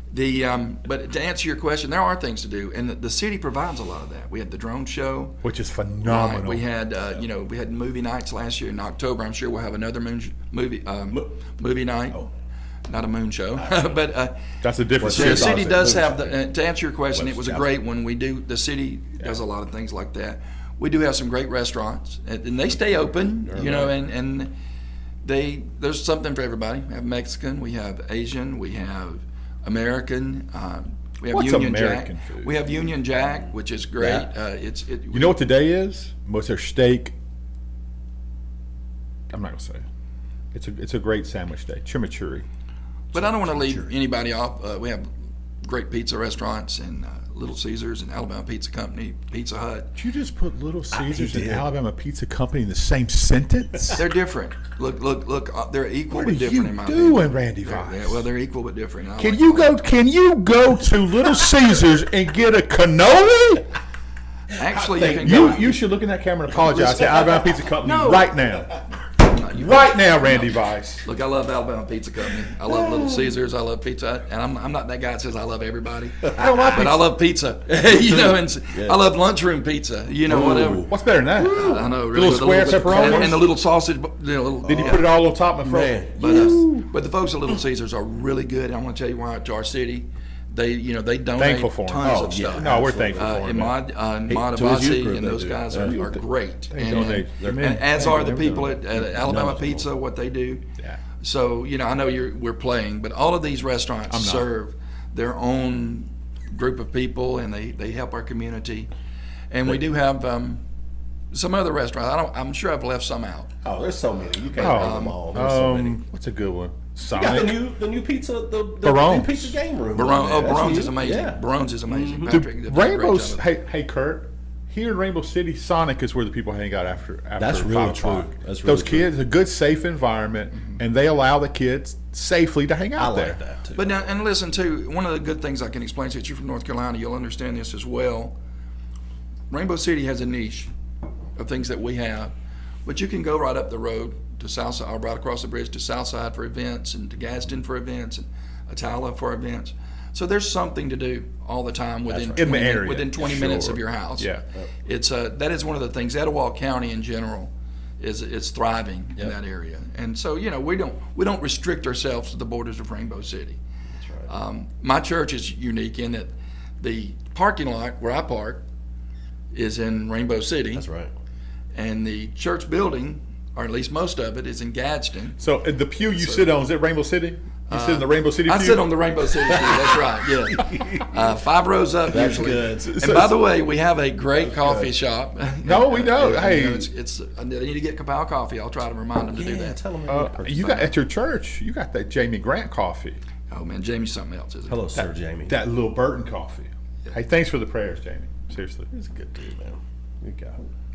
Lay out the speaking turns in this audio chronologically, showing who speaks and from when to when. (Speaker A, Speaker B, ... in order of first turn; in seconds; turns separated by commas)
Speaker A: 0.1-5.4, Speaker B: 5.4-6.6, Speaker A: 6.0-12.3, Speaker A: 12.9-14.3, Speaker B: 14.6-15.9, Speaker C: 15.0-16.4, Speaker A: 15.0-24.5, Speaker C: 17.1-17.7, Speaker C: 23.5-23.9, Speaker A: 25.2-35.4, Speaker B: 31.3-32.5, Speaker C: 34.0-34.3, Speaker B: 35.1-37.1, Speaker B: 39.3-39.8, Speaker B: 40.5-42.5, Speaker A: 43.1-45.1, Speaker C: 43.1-43.9, Speaker A: 45.6-49.9, Speaker B: 50.0-54.0, Speaker C: 50.9-51.7, Speaker A: 53.9-59.8, Speaker B: 56.1-58.2, Speaker B: 59.2-63.6, Speaker A: 64.5-65.7, Speaker C: 64.7-65.8, Speaker B: 65.2-68.7, Speaker C: 66.5-68.3, Speaker A: 69.2-80.9, Speaker B: 69.5-71.0, Speaker C: 72.7-73.2, Speaker B: 76.3-77.1, Speaker C: 77.8-79.0, Speaker C: 80.3-83.4, Speaker B: 80.9-83.4, Speaker A: 81.5-85.1, Speaker C: 84.6-85.1, Speaker B: 84.6-86.9, Speaker C: 85.6-86.6, Speaker A: 86.2-100.6, Speaker B: 91.4-93.8, Speaker C: 92.0-93.4, Speaker C: 94.3-96.0, Speaker B: 95.9-96.2, Speaker B: 96.7-99.3, Speaker C: 99.2-99.9, Speaker A: 101.2-108.9, Speaker B: 104.1-104.5, Speaker A: 109.5-110.6, Speaker A: 111.3-113.5, Speaker C: 113.6-116.0, Speaker A: 114.5-115.2, Speaker B: 114.6-117.6, Speaker C: 117.1-122.4, Speaker B: 118.8-119.6, Speaker A: 119.9-123.5, Speaker B: 122.3-133.4, Speaker C: 127.4-129.1, Speaker C: 133.0-134.0, Speaker A: 133.7-138.3, Speaker A: 139.5-140.7, Speaker A: 141.4-142.3, Speaker A: 142.8-154.3, Speaker C: 152.1-152.6, Speaker B: 152.3-154.4, Speaker A: 154.8-163.6, Speaker C: 163.9-164.3, Speaker A: 164.3-168.6, Speaker A: 169.5-170.8, Speaker C: 170.7-171.1, Speaker A: 171.7-175.4, Speaker B: 175.4-178.9, Speaker A: 176.1-176.5, Speaker A: 177.7-189.8, Speaker C: 179.5-180.0, Speaker C: 180.5-181.2, Speaker C: 182.1-183.1, Speaker B: 182.8-183.3, Speaker C: 184.3-184.9, Speaker B: 185.6-186.9, Speaker C: 189.2-190.8, Speaker B: 190.1-193.2, Speaker A: 190.5-190.9, Speaker A: 193.5-194.8, Speaker C: 194.7-195.6, Speaker B: 194.9-198.9, Speaker C: 198.9-200.6